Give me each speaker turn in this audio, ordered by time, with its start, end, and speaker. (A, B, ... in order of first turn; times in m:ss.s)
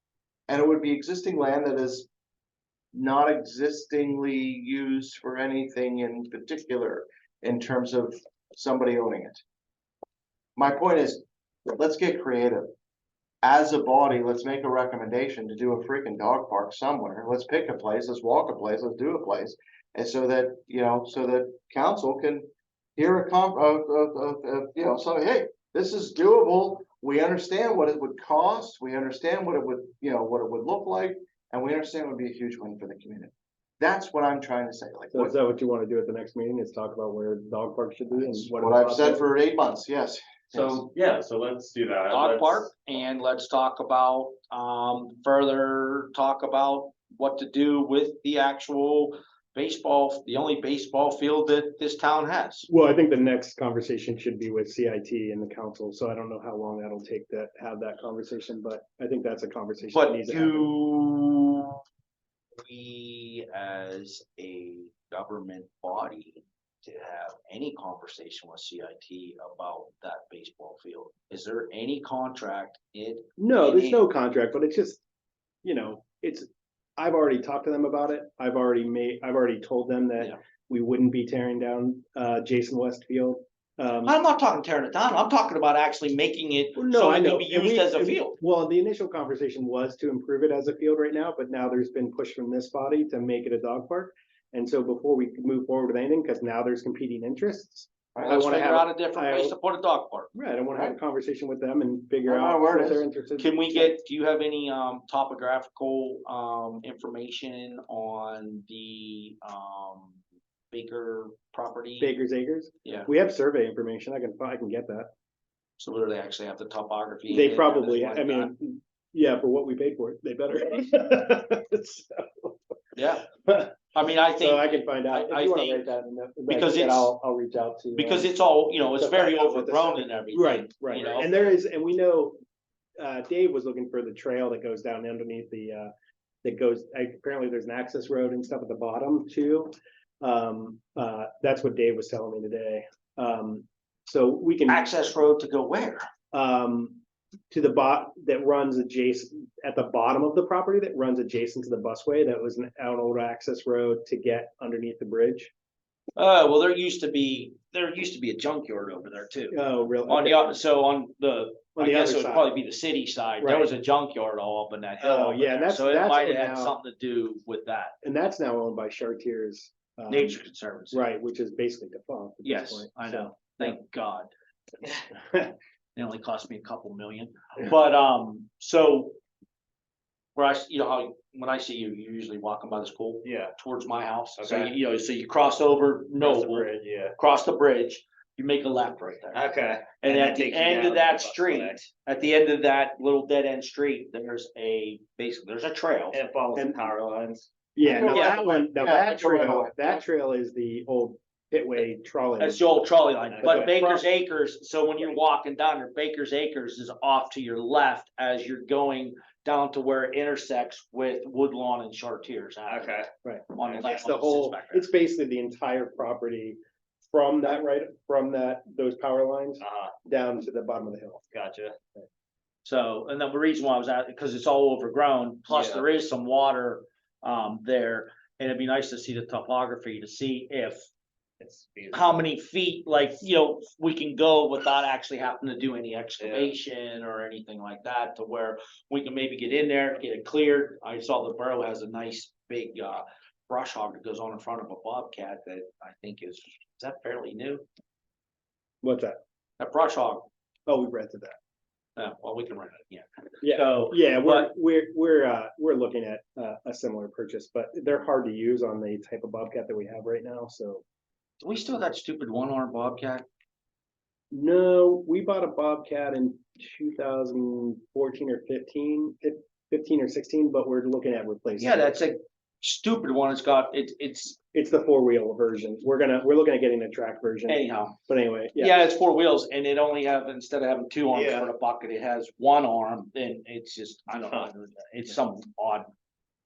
0:00.5-0:02.1 A
0:02.9-0:09.4 A
0:10.6-0:12.7 A
0:13.4-0:35.4 A
0:35.1-0:39.2 B
0:38.2-0:40.9 A
0:40.5-0:42.7 C
0:42.1-0:52.7 D
0:52.7-1:00.7 B
0:59.9-1:01.8 D
1:02.6-1:14.1 D
1:13.4-1:15.0 B
1:15.6-1:24.2 B
1:24.0-1:28.4 D
1:26.8-1:39.6 B
1:38.1-1:38.6 A
1:38.2-1:40.3 D
1:40.3-1:43.9 B
1:42.3-1:43.0 A
1:43.4-1:50.2 D
1:50.7-1:52.1 D
1:52.0-1:55.1 B
1:55.8-1:58.5 D
1:57.3-2:02.6 B
2:03.0-2:05.9 D
2:03.4-2:03.7 B
2:04.3-2:08.3 B
2:06.5-2:07.1 D
2:07.9-2:11.6 D
2:08.9-2:12.4 B
2:13.0-2:15.9 B
2:16.4-2:24.9 B
2:24.7-2:26.0 D
2:26.3-2:27.0 B
2:27.5-2:35.5 B
2:36.2-2:48.0 D
2:39.5-2:40.5 B
2:41.8-2:42.5 B
2:43.4-2:43.7 B
2:45.0-2:46.8 B
2:48.0-2:50.4 B
2:50.1-2:51.0 D
2:50.9-2:53.8 B
2:52.4-2:54.3 D
2:56.0-2:59.1 D
3:00.4-3:16.2 D
3:03.2-3:03.5 C
3:04.4-3:04.7 C
3:06.2-3:07.1 C
3:09.3-3:11.8 C
3:16.1-3:17.5 C
3:17.8-3:22.7 B
3:17.8-3:20.0 A
3:18.0-3:18.6 D
3:22.4-3:34.9 D
3:23.3-3:23.7 C
3:23.4-3:24.0 B
3:32.7-3:33.1 C
3:33.2-3:41.2 B
3:39.6-3:39.9 C
3:41.3-3:41.8 C
3:42.6-3:50.9 D
3:45.5-3:45.8 C
3:51.4-3:52.2 C
3:51.9-4:07.6 D
3:56.2-3:56.5 C
4:08.8-4:09.2 B
4:09.6-4:10.3 D
4:10.7-4:11.3 B
4:12.0-4:14.5 D
4:13.4-4:20.8 B
4:21.4-4:23.2 D
4:24.3-4:31.9 B
4:31.6-4:34.4 D
4:34.5-4:38.8 B
4:37.5-4:38.0 D
4:38.6-4:45.9 D
4:41.1-4:41.5 C